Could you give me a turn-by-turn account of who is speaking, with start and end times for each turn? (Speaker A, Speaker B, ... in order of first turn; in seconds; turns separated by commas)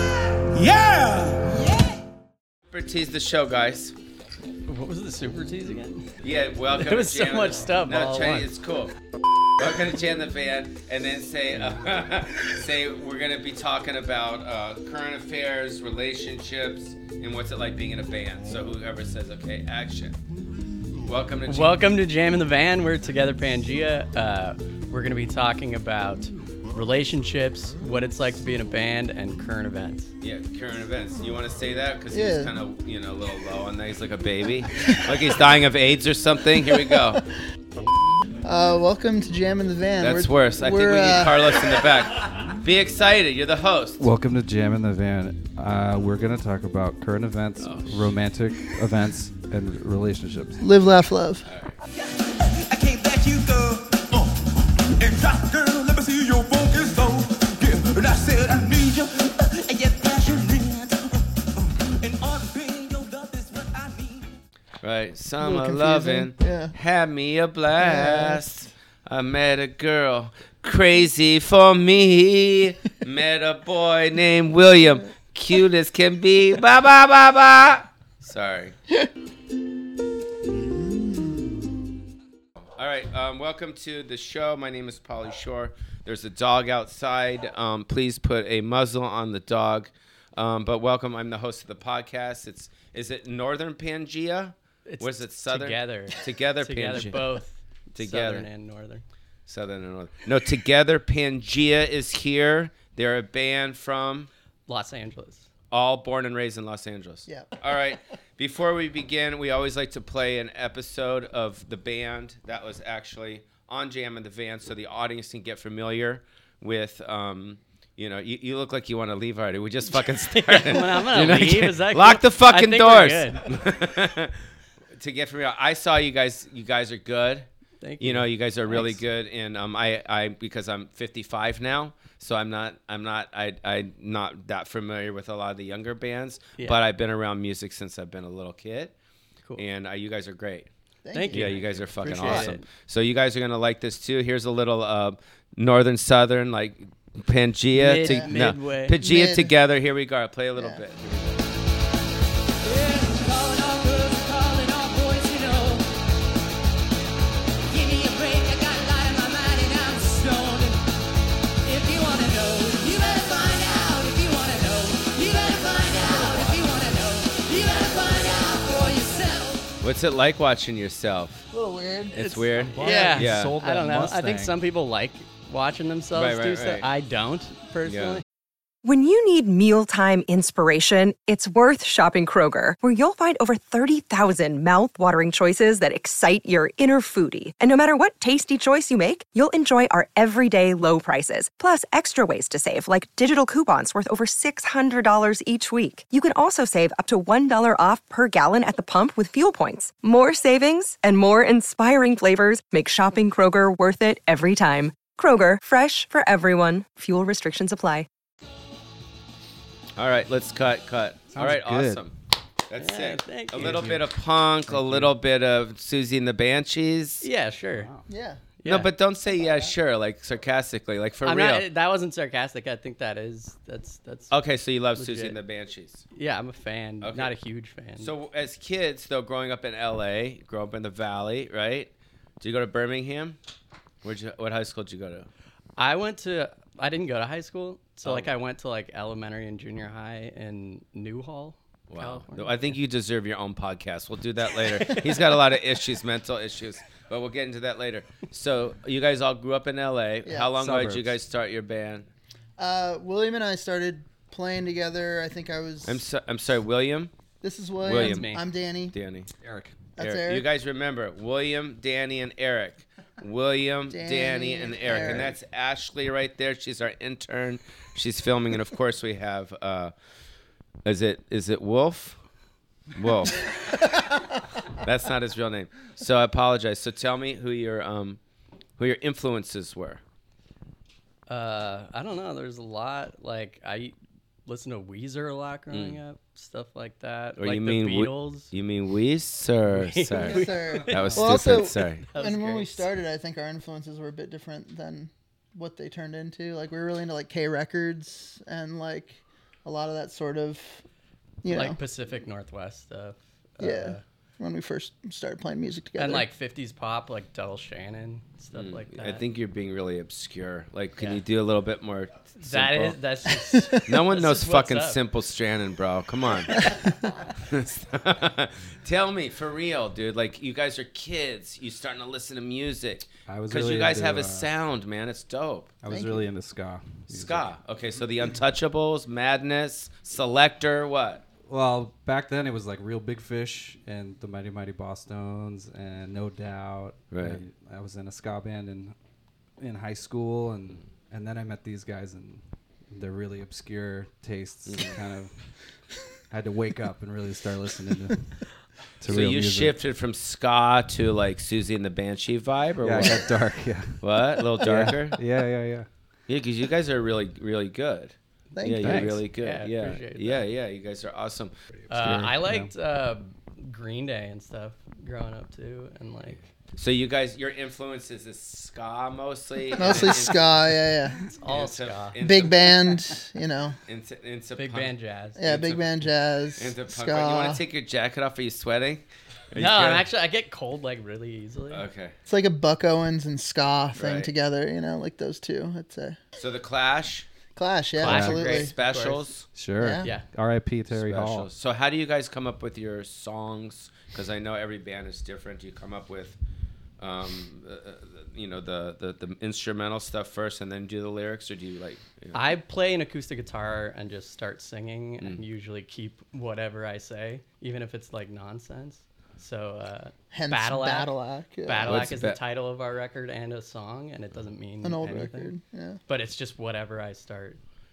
Speaker A: 0.4-1.8, Speaker B: 2.7-4.0, Speaker C: 4.7-6.1, Speaker B: 6.2-9.0, Speaker C: 6.8-8.6, Speaker B: 9.6-20.2, Speaker B: 21.1-21.8, Speaker C: 21.5-30.1, Speaker B: 30.2-37.2, Speaker D: 32.1-32.5, Speaker D: 36.6-37.2, Speaker D: 38.4-41.6, Speaker B: 40.0-44.1, Speaker E: 44.0-50.6, Speaker B: 47.6-48.1, Speaker D: 50.6-51.5, Speaker B: 51.5-51.8, Speaker A: 51.9-64.3, Speaker B: 64.8-78.8, Speaker D: 65.4-66.8, Speaker D: 67.8-68.4, Speaker D: 80.9-81.5, Speaker B: 82.8-97.2, Speaker C: 94.9-99.0, Speaker B: 98.0-98.5, Speaker B: 99.5-104.3, Speaker C: 104.7-105.5, Speaker B: 105.7-124.4, Speaker D: 107.3-107.8, Speaker C: 119.9-123.5, Speaker B: 125.0-127.5, Speaker C: 127.8-129.0, Speaker B: 128.0-138.9, Speaker B: 139.6-140.7, Speaker D: 141.0-141.6, Speaker C: 141.1-142.7, Speaker B: 141.3-151.6, Speaker D: 142.1-142.5, Speaker C: 147.7-148.9, Speaker D: 148.0-148.3, Speaker D: 149.0-149.5, Speaker D: 150.6-150.8, Speaker F: 152.8-155.8, Speaker F: 157.7-160.8, Speaker F: 161.7-169.7, Speaker B: 169.8-171.4, Speaker D: 171.5-173.2, Speaker B: 172.1-173.6, Speaker E: 172.5-174.6, Speaker C: 172.8-178.2, Speaker B: 176.1-176.9, Speaker B: 177.8-178.2, Speaker G: 178.8-208.1, Speaker B: 210.0-212.1, Speaker E: 211.3-212.0, Speaker B: 212.7-217.3, Speaker C: 212.8-214.1, Speaker E: 213.6-214.0, Speaker E: 214.7-215.1, Speaker C: 217.2-217.9, Speaker E: 217.7-218.1, Speaker D: 218.1-218.4, Speaker C: 218.6-218.9, Speaker B: 218.7-221.7, Speaker C: 221.2-224.4, Speaker B: 224.3-226.0, Speaker C: 225.0-225.4, Speaker C: 226.1-228.1, Speaker B: 227.0-227.3, Speaker B: 228.0-233.4, Speaker B: 234.0-235.3, Speaker C: 235.8-242.8, Speaker B: 238.0-238.3, Speaker B: 241.9-252.1, Speaker D: 250.2-250.5, Speaker E: 250.5-251.2, Speaker D: 252.6-256.0, Speaker B: 255.9-257.1, Speaker D: 257.4-258.9, Speaker B: 257.9-258.3, Speaker C: 257.9-258.4, Speaker B: 258.9-259.3, Speaker E: 259.4-259.8, Speaker D: 260.0-260.5, Speaker B: 260.0-269.9, Speaker D: 263.9-265.4, Speaker B: 270.9-272.2, Speaker B: 272.9-273.5, Speaker B: 274.8-278.2, Speaker B: 278.8-280.0, Speaker C: 281.3-283.9, Speaker C: 284.5-288.5, Speaker B: 285.7-286.0, Speaker B: 287.4-292.1, Speaker C: 289.7-292.9, Speaker D: 290.2-300.8, Speaker E: 291.0-291.3, Speaker D: 301.4-301.8, Speaker C: 301.5-304.0, Speaker D: 303.6-306.3, Speaker C: 306.0-309.2, Speaker B: 308.5-313.0, Speaker C: 312.4-315.0, Speaker B: 313.9-316.7, Speaker B: 317.4-325.7, Speaker E: 323.3-324.5, Speaker E: 325.8-327.5, Speaker D: 325.9-326.3, Speaker B: 327.1-331.2, Speaker E: 331.5-338.9, Speaker B: 337.1-337.4, Speaker E: 339.6-342.4, Speaker E: 342.9-345.3, Speaker B: 344.7-345.0, Speaker E: 346.3-348.2, Speaker E: 349.0-349.8, Speaker B: 349.1-353.3, Speaker E: 352.8-355.9, Speaker B: 354.0-355.2, Speaker B: 356.3-361.5, Speaker D: 358.5-359.2, Speaker E: 358.8-359.2, Speaker C: 359.4-360.5, Speaker E: 361.7-362.7, Speaker C: 361.9-366.4, Speaker B: 366.8-370.4, Speaker D: 369.8-371.2, Speaker C: 369.8-370.1, Speaker C: 371.3-372.2, Speaker B: 371.4-372.7, Speaker D: 372.2-373.8, Speaker B: 373.9-375.9, Speaker C: 374.6-375.6, Speaker D: 375.4-377.6, Speaker B: 376.6-380.1, Speaker C: 379.5-381.9, Speaker B: 381.7-382.1, Speaker D: 382.3-386.2, Speaker B: 383.9-384.3, Speaker B: 386.4-387.3, Speaker D: 387.6-388.7, Speaker C: 388.0-389.2, Speaker B: 388.0-389.5, Speaker E: 388.1-388.5, Speaker E: 389.6-391.5, Speaker D: 389.8-390.1, Speaker B: 390.9-396.4, Speaker B: 397.0-402.4, Speaker C: 402.3-411.1, Speaker D: 410.3-412.0, Speaker C: 411.6-415.5, Speaker B: 411.8-412.4, Speaker D: 414.8-416.0, Speaker C: 416.1-417.6